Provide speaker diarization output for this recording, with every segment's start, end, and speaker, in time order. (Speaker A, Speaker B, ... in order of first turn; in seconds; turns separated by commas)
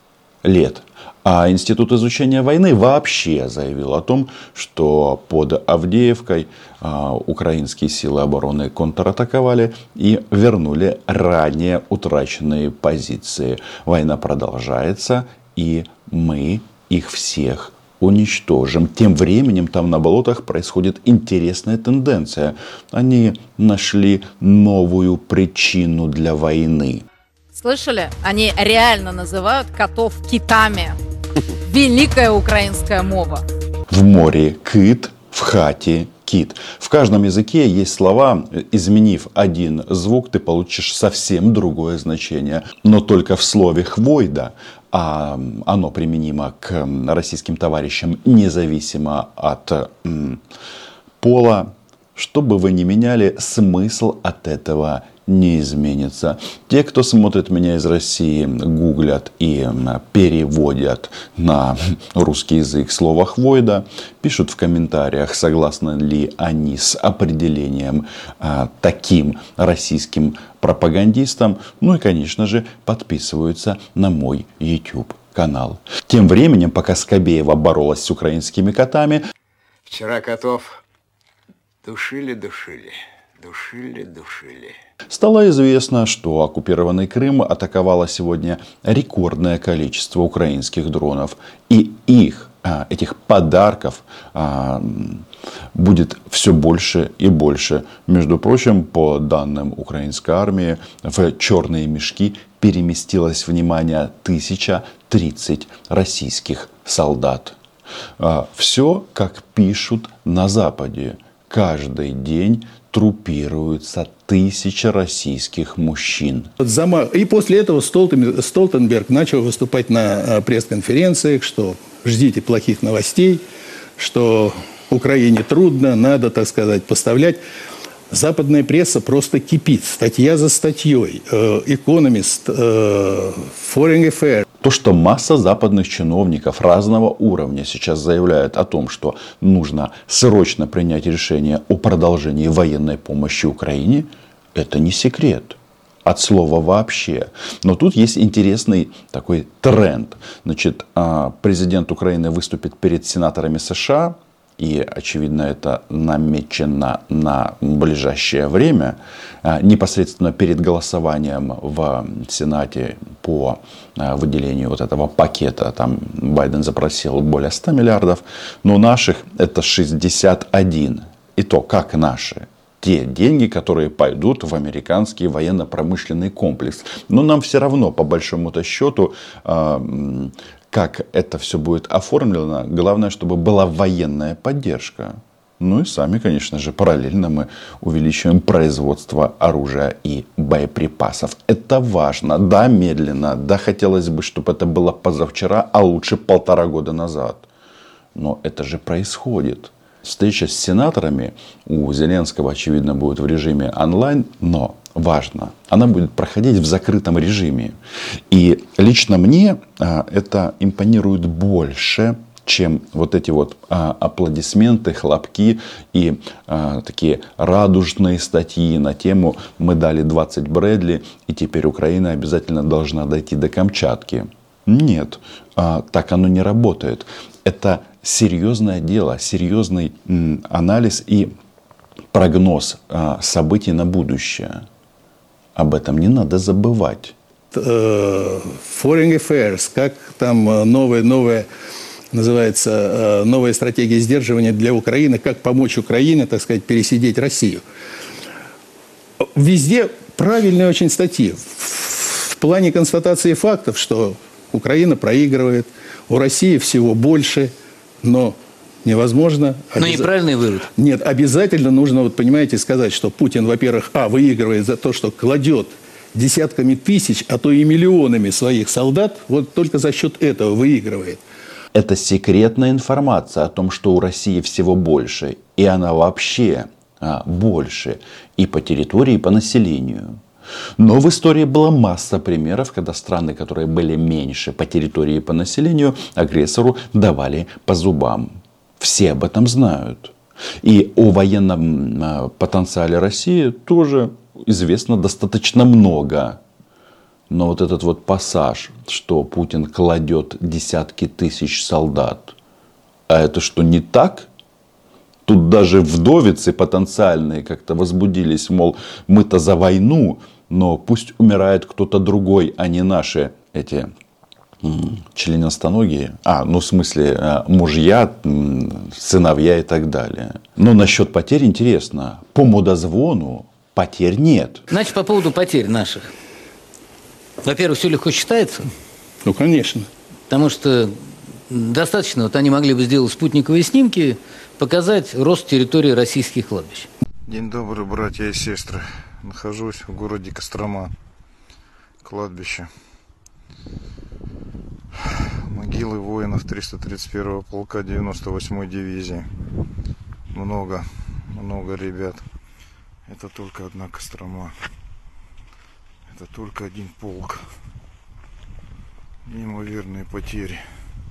Speaker A: 0.4-27.0, Speaker B: 27.5-31.0, Speaker B: 31.6-33.5, Speaker A: 33.9-50.4, Speaker A: 51.2-79.2, Speaker C: 79.9-80.8, Speaker C: 81.8-84.8, Speaker A: 85.1-107.6, Speaker A: 108.2-116.5, Speaker D: 116.6-123.5, Speaker D: 124.0-127.4, Speaker D: 128.1-134.4, Speaker A: 134.6-197.5, Speaker A: 198.2-207.8, Speaker A: 208.3-231.3, Speaker A: 232.1-234.6, Speaker A: 235.6-237.1, Speaker D: 237.5-241.5, Speaker D: 242.1-247.6, Speaker D: 249.2-257.5, Speaker D: 258.0-260.1, Speaker E: 259.8-260.7, Speaker D: 260.8-271.2, Speaker A: 271.7-280.2, Speaker A: 280.8-296.4, Speaker A: 297.3-302.4, Speaker A: 303.1-304.3, Speaker A: 305.3-313.9, Speaker A: 314.6-324.6, Speaker E: 324.7-326.1, Speaker E: 327.4-328.7, Speaker D: 329.2-329.9, Speaker E: 330.3-330.9, Speaker E: 331.5-336.9, Speaker F: 337.3-340.9, Speaker F: 342.0-342.7, Speaker F: 345.1-349.3, Speaker F: 350.3-352.2, Speaker F: 353.1-354.5, Speaker F: 356.1-357.4, Speaker F: 359.3-360.6